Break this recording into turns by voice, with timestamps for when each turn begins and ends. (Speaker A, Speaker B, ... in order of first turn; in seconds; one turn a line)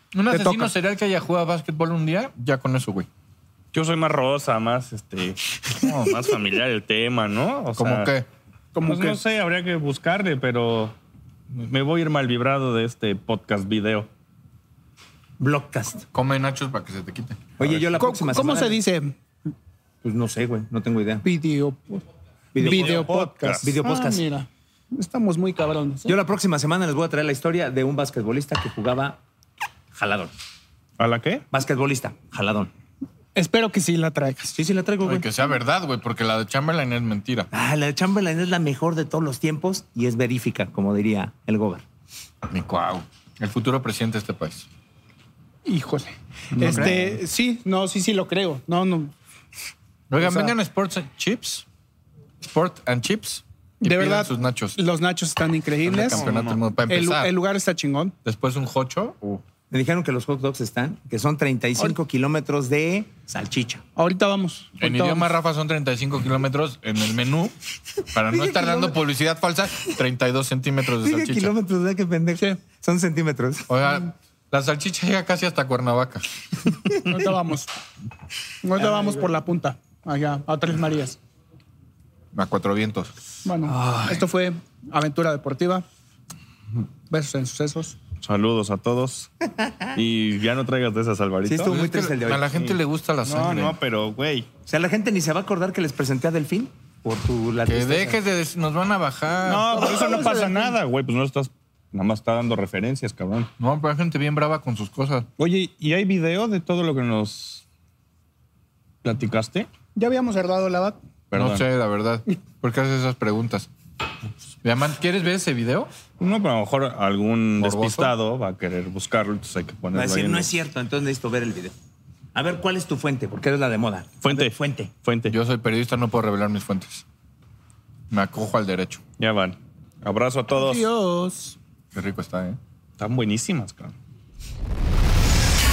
Speaker A: 0.1-3.1
Speaker B: 0.3-0.7
Speaker C: 3.7-8.1
Speaker A: 5.8-6.2
Speaker A: 7.8-8.3
Speaker B: 8.7-9.2
Speaker C: 8.8-10.9
Speaker C: 11.5-14.1
Speaker D: 15.4-16.0
Speaker A: 16.1-17.8
Speaker D: 17.6-18.8
Speaker B: 18.0-19.2
Speaker D: 20.0-21.2
Speaker B: 21.2-22.0
Speaker D: 22.5-23.0
Speaker B: 22.6-26.1
Speaker C: 22.6-23.7
Speaker D: 23.6-24.2
Speaker D: 26.1-29.2
Speaker D: 29.9-30.3
Speaker C: 31.0-31.4
Speaker D: 31.5-32.7
Speaker B: 33.4-34.5
Speaker D: 34.5-35.3
Speaker A: 35.0-37.5
Speaker D: 37.5-41.8
Speaker A: 42.5-44.6
Speaker B: 45.6-49.1
Speaker C: 46.6-47.0
Speaker A: 46.6-47.1
Speaker A: 50.1-51.6
Speaker B: 50.2-50.5
Speaker A: 52.4-54.8
Speaker B: 53.8-56.3
Speaker A: 55.8-57.3
Speaker C: 56.1-56.6
Speaker B: 56.9-58.1
Speaker A: 58.2-59.4
Speaker D: 59.7-63.8
Speaker B: 64.0-65.3
Speaker A: 64.8-67.5
Speaker A: 68.1-71.5
Speaker D: 71.0-73.7
Speaker A: 73.7-76.2
Speaker B: 77.1-77.7
Speaker B: 78.6-81.2
Speaker A: 82.3-83.1
Speaker B: 83.4-85.8
Speaker A: 83.7-84.2
Speaker B: 87.1-88.0
Speaker C: 88.2-89.3
Speaker C: 89.9-91.8
Speaker D: 91.4-92.5
Speaker A: 91.7-93.8
Speaker C: 92.5-94.5
Speaker D: 94.7-98.2
Speaker A: 97.7-99.7
Speaker C: 99.5-103.5
Speaker B: 99.7-100.8
Speaker A: 103.6-105.3
Speaker C: 105.4-107.6
Speaker C: 109.0-109.7
Speaker B: 110.0-111.0
Speaker C: 111.3-111.6
Speaker A: 111.3-113.7
Speaker A: 114.6-115.9
Speaker C: 116.2-120.5
Speaker A: 117.6-118.1
Speaker D: 119.9-121.7
Speaker D: 122.3-124.9
Speaker C: 124.2-125.3
Speaker A: 125.3-127.0
Speaker A: 128.1-129.0
Speaker C: 129.2-130.9
Speaker B: 130.5-131.6
Speaker A: 131.9-132.6
Speaker C: 133.0-133.9